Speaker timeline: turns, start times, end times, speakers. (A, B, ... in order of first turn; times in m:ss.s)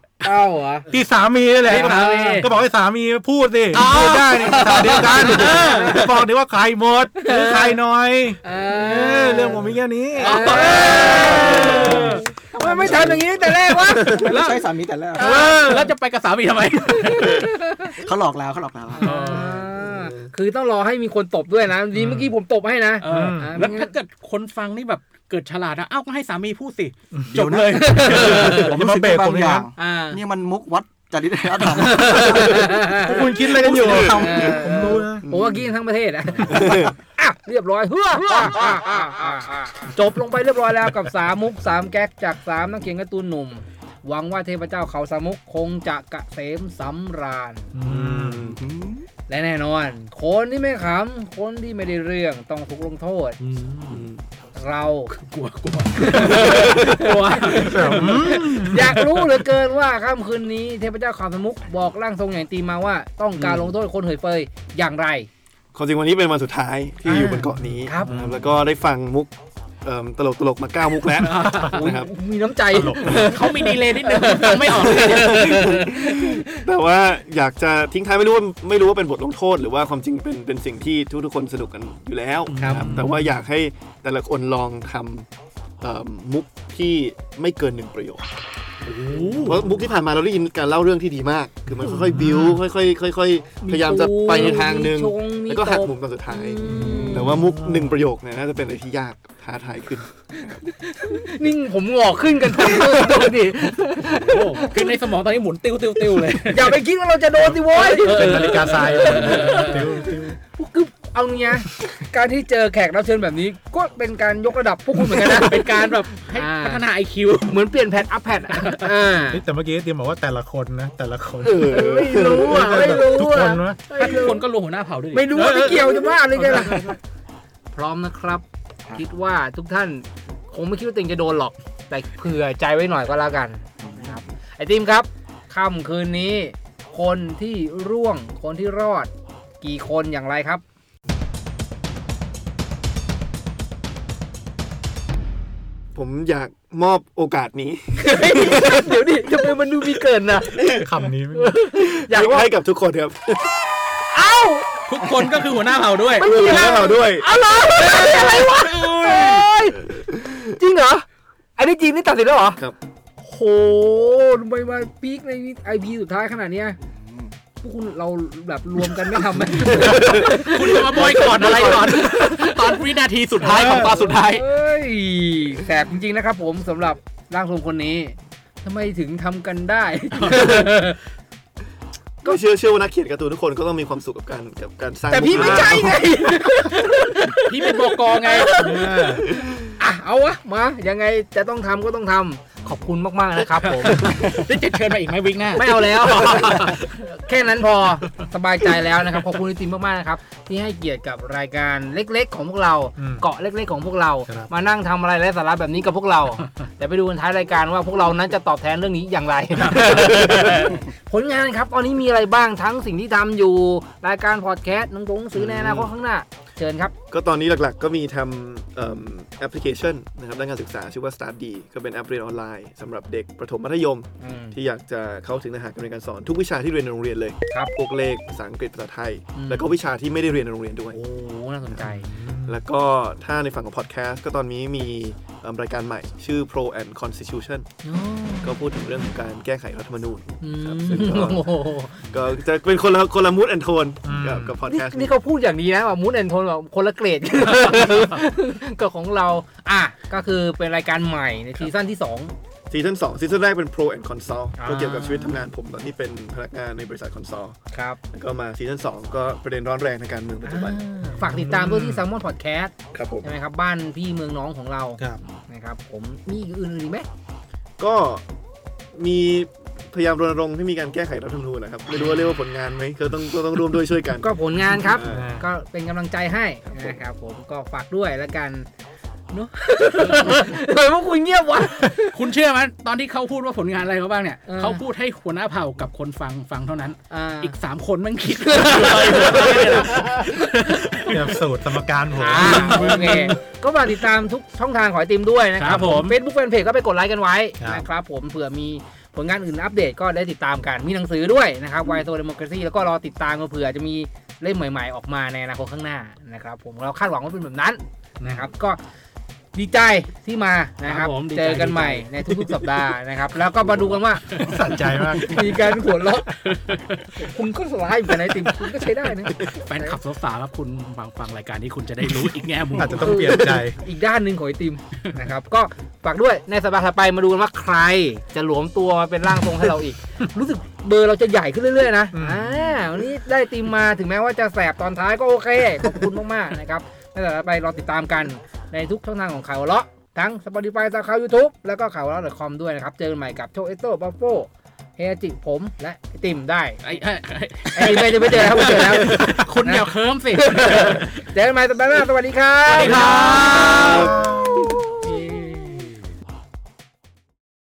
0:00.2-0:00.9 A
0:00.9-0:10.4 B
0:01.6-0:02.5 A
0:01.6-0:02.5 C
0:03.7-0:06.1 C
0:04.4-0:06.1 A
0:07.2-0:07.8 A
0:08.4-0:14.2 A
0:10.2-0:12.2 C
0:11.1-0:15.8 D
0:14.0-0:14.6 C
0:15.2-0:17.5 C
0:15.2-0:15.5 A
0:17.2-0:18.0 A
0:18.0-0:19.1 D
0:19.0-0:19.7 C
0:19.0-0:23.9 A
0:21.9-0:22.3 B
0:23.0-0:28.7 C
0:23.0-0:23.6 B
0:27.3-0:32.8 D
0:27.8-0:28.4 A
0:28.4-0:29.6 B
0:29.8-0:30.2 A
0:31.8-0:33.3 A
0:32.9-0:35.2 B
0:33.5-0:34.6 E
0:33.8-0:47.7 A
0:36.5-0:36.9 E
0:47.7-0:48.5 B
0:47.8-0:48.6 E
0:48.4-0:49.0 D
0:49.3-0:53.4 A
0:53.4-0:54.1 C
0:53.9-0:54.2 E
0:54.5-0:55.1 A
0:55.1-0:59.4 C
0:56.0-0:56.5 A
0:56.5-0:57.1 E
0:57.5-0:59.0 B
0:57.7-1:05.3 A
1:03.4-1:03.7 E
1:05.7-1:09.3 E
1:07.1-1:08.5 B
1:07.8-1:08.1 A
1:09.8-1:12.1 E
1:11.1-1:11.8 C
1:11.6-1:16.6 A
1:12.7-1:13.2 B
1:13.1-1:15.6 C
1:14.8-1:25.3 E
1:22.5-1:23.2 C
1:22.5-1:23.3 B
1:22.6-1:22.8 A
1:25.8-1:28.3 E
1:28.8-1:29.7 C
1:29.4-1:40.6 E
1:31.8-1:32.6 B
1:33.6-1:37.4 A
1:36.6-1:38.0 B
1:40.8-1:44.7 A
1:44.0-1:46.8 C
1:46.5-1:56.8 A
1:47.4-1:49.8 C
1:48.0-1:50.4 B
1:55.1-1:57.6 C
1:57.5-1:59.4 A
1:58.5-1:58.9 C
1:59.3-2:01.7 B
2:01.4-2:02.6 E
2:01.7-2:04.4 A
2:02.5-2:03.8 B
2:03.9-2:07.0 C
2:05.1-2:06.9 A
2:07.7-2:08.4 A
2:08.9-2:20.6 A
2:13.8-2:14.2 D
2:25.9-2:29.1 E
2:28.0-2:30.6 A
2:30.6-2:30.9 E
2:30.8-2:31.6 B
2:31.3-2:32.5 A
2:31.8-2:33.6 E
2:34.1-2:34.7 A
2:34.9-2:36.4 C
2:36.2-2:39.9 A
2:36.2-2:39.5 E
2:40.6-2:42.6 A
2:43.2-2:46.8 A
2:46.9-2:47.3 D
2:47.6-2:51.1 A
2:49.6-2:51.9 E
2:50.2-2:54.4 C
2:51.9-2:52.3 A
2:53.5-3:01.0 A
2:53.5-2:53.9 B
3:00.1-3:00.8 C
3:02.2-3:06.1 E
3:05.1-3:09.0 A
3:05.3-3:05.9 C
3:07.3-3:08.7 C
3:08.5-3:09.2 B
3:09.1-3:09.7 E
3:09.8-3:14.3 A
3:13.6-3:16.9 C
3:15.5-3:36.9 A
3:23.0-3:23.2 B
3:29.6-3:30.6 C
3:35.3-3:35.9 E
3:37.1-3:51.0 E
3:44.2-3:44.6 A
3:49.3-3:49.7 A
3:50.9-3:52.1 A
3:51.9-3:52.6 B
3:52.4-3:57.7 E
3:57.8-3:58.5 A
3:58.4-4:05.1 E
4:00.4-4:02.0 A
4:04.0-4:04.6 B
4:04.7-4:12.3 A
4:07.6-4:08.1 C
4:12.7-4:17.6 E
4:14.6-4:15.4 A
4:17.7-4:18.0 A
4:18.1-4:20.8 E
4:20.4-4:27.1 A
4:21.0-4:22.0 B
4:22.9-4:23.3 E
4:27.8-4:28.2 E
4:28.9-4:35.3 E
4:34.2-4:38.7 A
4:35.1-4:35.4 B
4:39.3-4:42.1 A
4:40.0-4:40.4 C
4:42.1-4:51.2 C
4:44.4-4:44.8 A
4:47.1-4:47.5 A
4:50.7-4:53.3 B
4:52.2-5:08.8 A
4:52.3-4:53.4 C
4:55.6-4:56.2 C
5:09.5-5:14.3 A
5:10.8-5:12.3 C
5:14.3-5:15.4 C
5:14.4-5:15.5 B
5:15.2-5:16.5 A
5:16.5-5:17.1 C
5:17.1-5:20.0 A
5:19.4-5:23.4 C
5:22.8-5:23.8 B
5:23.0-5:46.9 A
5:32.1-5:32.9 B
5:46.8-5:51.1 C
5:47.7-5:49.9 A
5:50.7-5:54.0 A
5:52.7-5:54.1 C
5:52.9-5:54.3 E
5:55.0-5:55.9 C